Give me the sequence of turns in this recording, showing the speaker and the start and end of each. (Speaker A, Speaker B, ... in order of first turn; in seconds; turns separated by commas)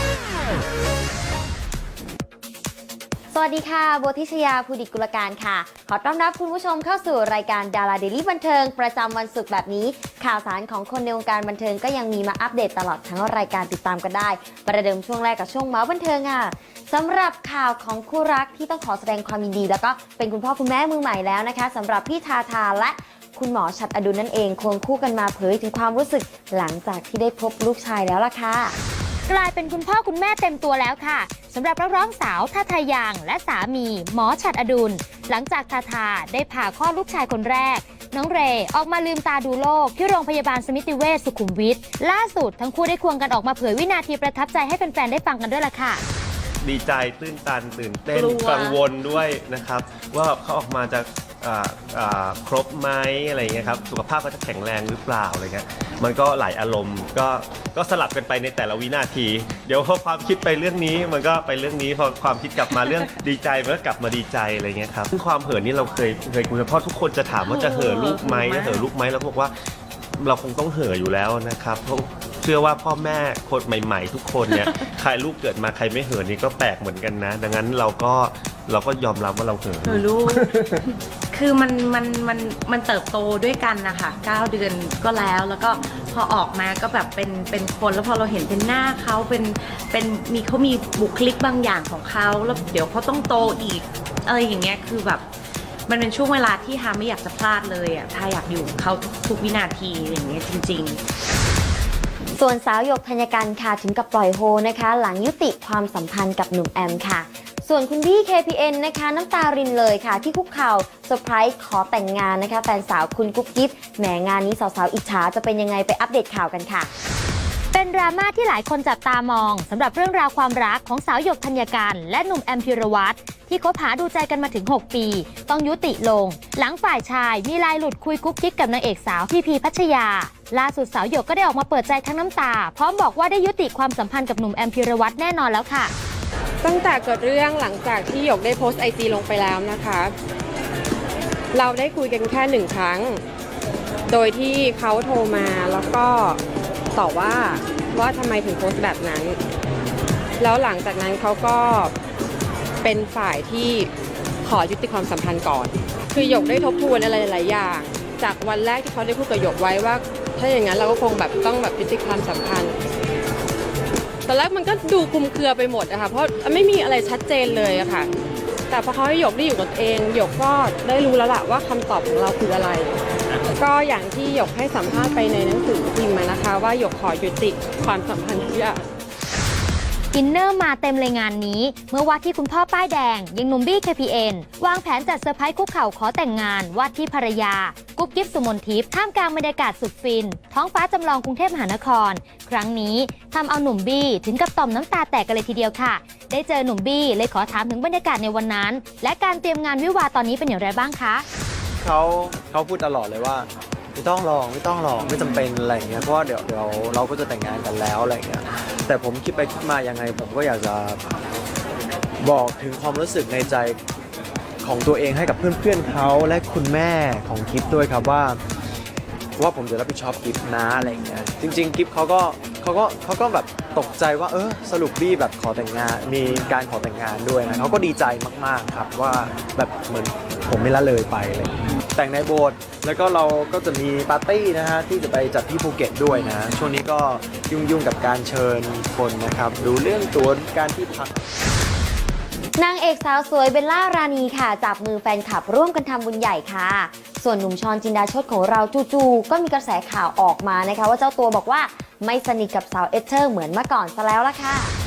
Speaker A: 3.3-28.8, Speaker B: 29.3-46.0, Speaker C: 46.6-69.5, Speaker D: 48.1-48.8, Speaker D: 62.7-63.0, Speaker D: 67.4-68.9, Speaker C: 70.2-80.0, Speaker D: 74.5-74.9, Speaker D: 79.8-80.5, Speaker D: 81.3-95.3, Speaker D: 95.9-101.0, Speaker A: 102.4-116.9, Speaker B: 117.7-135.9, Speaker E: 136.6-140.1, Speaker E: 141.5-143.2, Speaker E: 144.1-146.4, Speaker E: 146.9-149.4, Speaker E: 150.4-151.9, Speaker E: 152.8-153.9, Speaker E: 154.4-162.7, Speaker E: 164.3-168.1, Speaker E: 168.7-172.9, Speaker E: 173.6-178.8, Speaker B: 180.1-201.2, Speaker F: 201.8-211.0, Speaker F: 212.2-213.8, Speaker F: 214.6-218.4, Speaker F: 219.4-241.1, Speaker A: 242.6-254.7